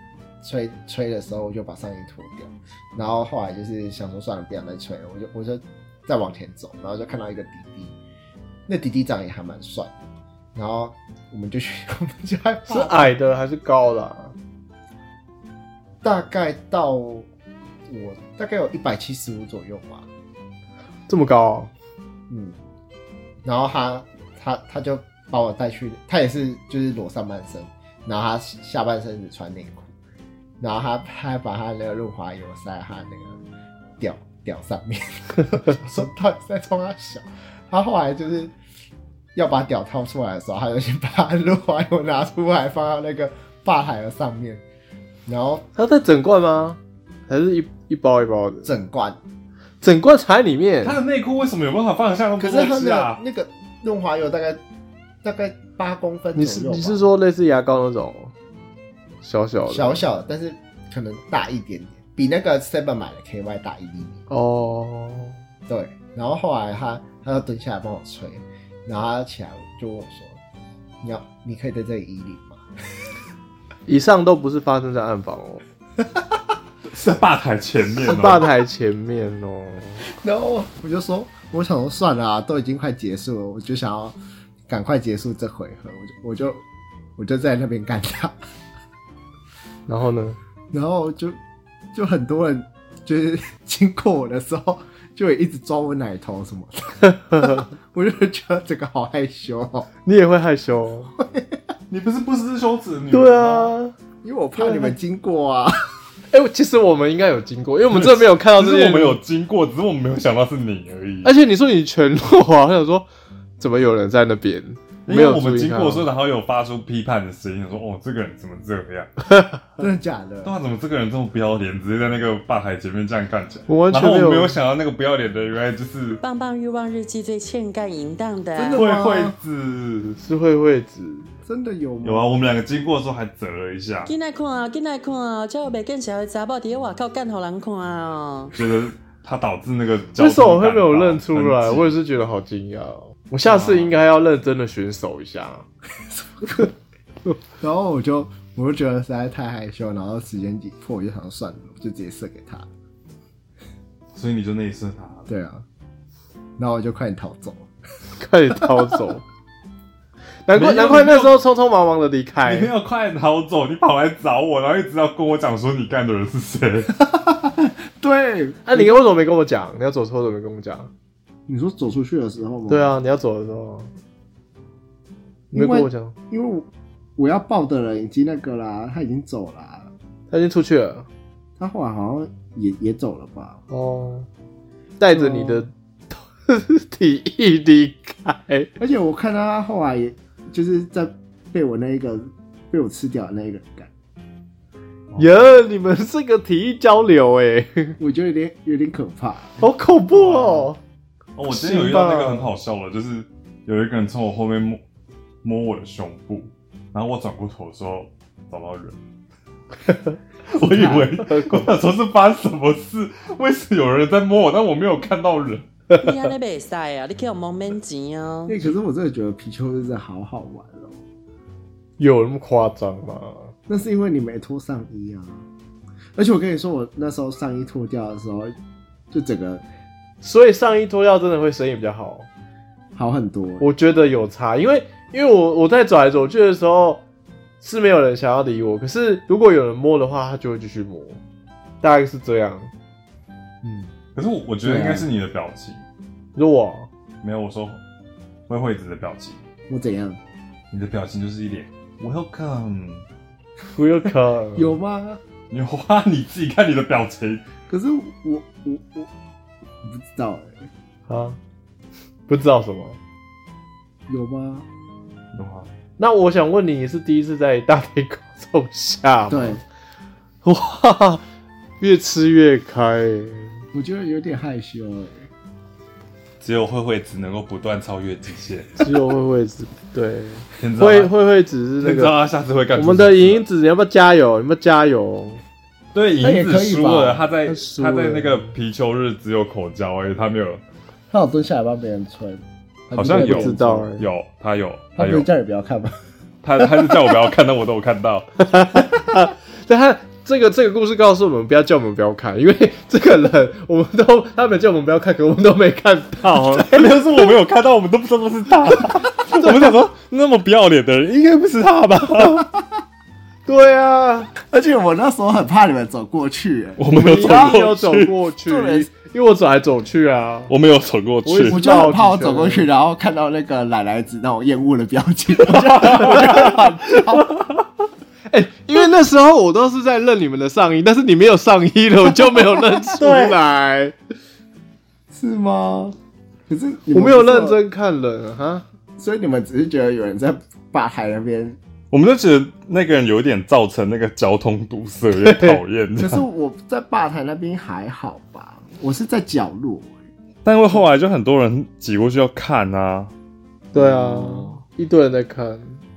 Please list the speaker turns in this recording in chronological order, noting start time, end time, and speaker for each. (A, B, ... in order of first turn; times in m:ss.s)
0:00.4-0:07.9 A
0:08.7-0:09.9 A
0:10.5-0:13.1 A
0:12.7-0:14.3 B
0:16.0-0:17.3 A
0:17.8-0:20.1 A
0:21.1-0:21.7 B
0:22.3-0:22.6 A
0:23.4-0:29.9 A
0:30.6-0:33.4 A
0:34.0-0:38.5 A
0:39.3-0:44.6 A
0:45.2-0:45.6 A
0:45.7-0:48.7 B
0:48.6-0:49.2 A
0:49.8-0:51.0 B
0:50.8-0:53.2 C
0:52.4-0:54.6 A
0:55.2-0:57.0 A
0:56.4-0:58.3 B
0:59.2-1:00.0 B
0:59.6-1:04.2 A
1:04.3-1:05.4 B
1:05.7-1:10.4 A
1:11.0-1:12.6 A
1:13.9-1:15.6 B
1:16.9-1:18.5 C
1:18.0-1:20.1 B
1:20.2-1:24.2 A
1:24.7-1:26.6 A
1:27.2-1:28.4 A
1:29.9-1:30.4 B
1:30.7-1:31.4 A
1:31.9-1:39.9 A
1:37.3-1:37.6 B
1:40.0-1:41.1 B
1:41.2-1:41.6 A
1:41.9-1:43.7 C
1:43.1-1:43.9 B
1:44.2-1:45.8 A
1:44.6-1:44.9 B
1:46.3-1:49.2 B
1:47.9-1:51.3 C
1:51.2-1:53.1 B
1:53.6-1:56.1 B
1:55.0-1:59.1 C
1:59.8-2:00.5 A
2:00.4-2:06.2 C
2:03.7-2:04.6 B
2:06.2-2:08.8 D
2:08.5-2:09.4 A
2:08.7-2:10.2 C
2:10.2-2:11.3 B
2:11.4-2:12.3 A
2:12.0-2:14.1 C
2:14.0-2:18.5 D
2:18.5-2:21.9 C
2:20.2-2:25.6 B
2:23.4-2:23.9 C
2:26.1-2:26.7 A
2:27.6-2:32.7 A
2:34.1-2:35.3 C
2:35.3-2:35.6 A
2:36.6-2:37.7 A
2:38.2-2:39.2 B
2:40.4-2:42.7 B
2:40.5-2:41.4 C
2:42.4-2:46.9 C
2:47.0-2:49.0 A
2:48.6-2:50.9 B
2:51.5-2:52.9 A
2:52.7-2:53.9 B
2:55.5-2:56.1 B
2:55.5-2:59.9 A
3:00.3-3:01.1 B
3:01.6-3:03.6 A
3:03.7-3:04.3 B
3:05.0-3:08.7 B
3:05.1-3:05.6 A
3:08.8-3:13.9 A
3:15.1-3:15.4 C
3:15.2-3:18.0 B
3:18.0-3:19.6 A
3:19.6-3:20.8 B
3:20.1-3:20.7 C
3:21.4-3:24.8 C
3:21.5-3:22.5 B
3:25.4-3:29.0 C
3:30.5-3:35.7 C
3:30.6-3:31.1 A
3:30.8-3:31.7 B
3:35.9-3:38.6 D
3:38.5-3:41.0 A
3:42.0-3:43.5 B
3:43.7-3:45.4 A
3:46.2-3:48.6 A
3:49.1-3:49.6 A
3:50.2-3:52.3 B
3:52.9-3:53.6 A
3:53.6-3:57.0 B
3:57.6-4:01.2 B
4:01.8-4:02.7 B
4:03.6-4:03.9 A
4:04.2-4:05.8 C
4:04.6-4:05.1 A
4:06.4-4:06.9 B
4:07.2-4:07.8 C
4:08.5-4:09.4 C
4:09.7-4:10.2 A
4:10.7-4:13.0 C
4:13.7-4:14.8 B
4:14.6-4:15.2 A
4:15.5-4:17.4 C
4:17.7-4:19.1 A
4:19.8-4:20.7 A
4:21.1-4:21.4 B
4:22.3-4:23.0 B
4:24.1-4:24.7 A
4:25.3-4:25.7 C
4:26.0-4:29.6 B
4:29.3-4:29.6 A
4:30.4-4:31.2 B
4:31.8-4:33.6 B
4:33.7-4:35.3 A
4:36.4-4:38.9 C
4:38.8-4:42.1 B
4:40.6-4:41.1 C
4:41.8-4:43.4 C
4:42.7-4:45.4 B
4:45.9-4:50.6 C
4:46.2-4:47.3 A
4:47.4-4:48.5 B
4:51.1-4:53.9 A
4:52.9-4:55.3 C
4:53.1-4:54.0 B
4:55.0-4:56.0 A
4:56.4-4:58.5 C
4:58.4-5:06.9 B
5:06.6-5:12.5 C
5:13.4-5:14.3 B
5:14.4-5:17.8 A
5:16.8-5:18.2 C
5:16.9-5:20.5 B
5:18.4-5:18.9 A
5:20.5-5:21.6 C
5:21.2-5:22.7 B
5:21.4-5:27.3 A
5:25.4-5:27.6 C
5:25.8-5:26.8 B
5:28.3-5:34.0 B
5:32.2-5:32.9 A
5:33.0-5:33.4 C
5:35.1-5:36.0 A
5:36.5-5:37.6 A
5:36.9-5:38.6 B
5:39.0-5:41.6 A
5:41.9-5:46.2 C
5:45.2-5:45.6 B
5:46.0-5:50.0 A
5:50.4-5:53.1 C
5:53.7-5:55.8 B
5:53.7-5:54.6 A